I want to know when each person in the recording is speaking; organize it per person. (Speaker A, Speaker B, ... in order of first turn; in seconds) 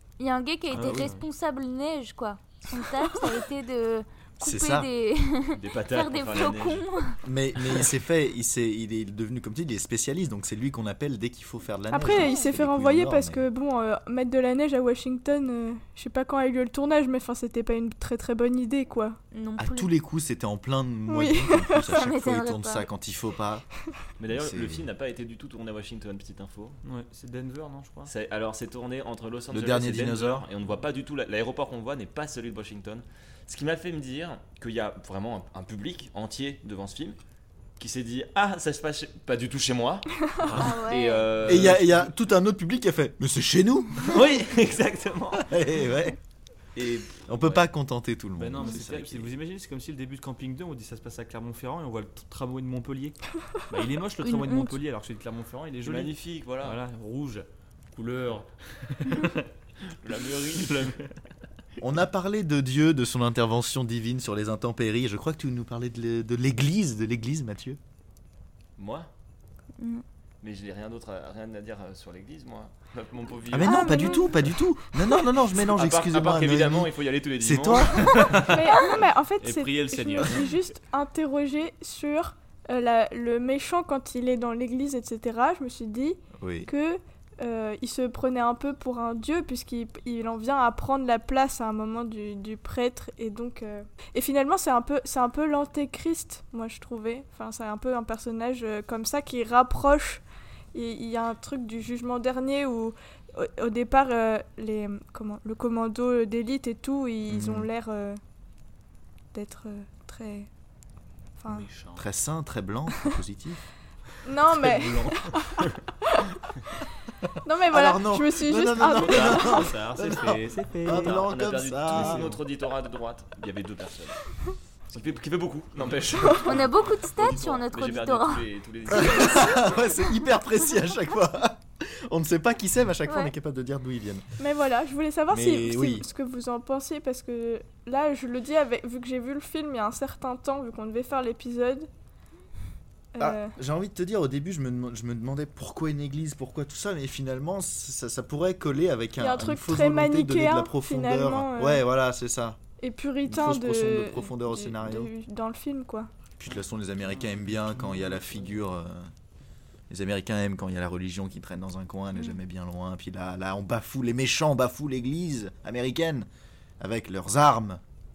Speaker A: 0.2-7.2, 12.0-12.5, 19.3-19.9, 21.9-22.9, 40.5-41.3, 54.2-54.8, 69.8-70.0, 126.4-128.4, 129.0-129.4, 133.0-133.3
Speaker B: 0.7-1.2, 26.8-28.1, 40.4-40.8, 41.4-42.0, 46.8-47.6, 48.4-53.2, 53.7-59.5, 60.4-61.1, 78.1-78.6, 79.4-80.6, 111.5-112.0, 114.5-115.3, 118.8-122.4, 157.0-158.7
Speaker C: 4.4-4.9, 7.2-13.4, 19.6-23.6, 24.3-24.9, 29.5-30.5, 41.4-44.3, 45.4-46.2, 47.3-49.3, 61.8-67.8, 73.5-78.3, 86.4-86.7, 107.3-107.7, 112.0-113.6, 117.7-122.3, 128.9-134.2, 135.3-136.1, 143.2-152.6, 153.2-155.1, 156.4-159.1, 159.9-166.3, 166.8-167.8
Speaker D: 5.5-6.8, 24.2-26.8, 28.1-37.2, 37.8-42.1, 44.1-45.5, 55.8-56.8, 60.0-61.0, 68.8-69.1, 70.4-74.0, 75.7-78.4, 120.9-124.2, 124.9-129.8
Speaker E: 11.9-19.2, 21.1-21.9, 73.6-74.4, 78.5-108.2, 109.3-110.5, 111.4-111.7, 114.2-116.3, 117.4-119.7, 126.2-126.5, 134.4-141.9, 143.1-143.5, 149.2-151.8, 152.8-156.1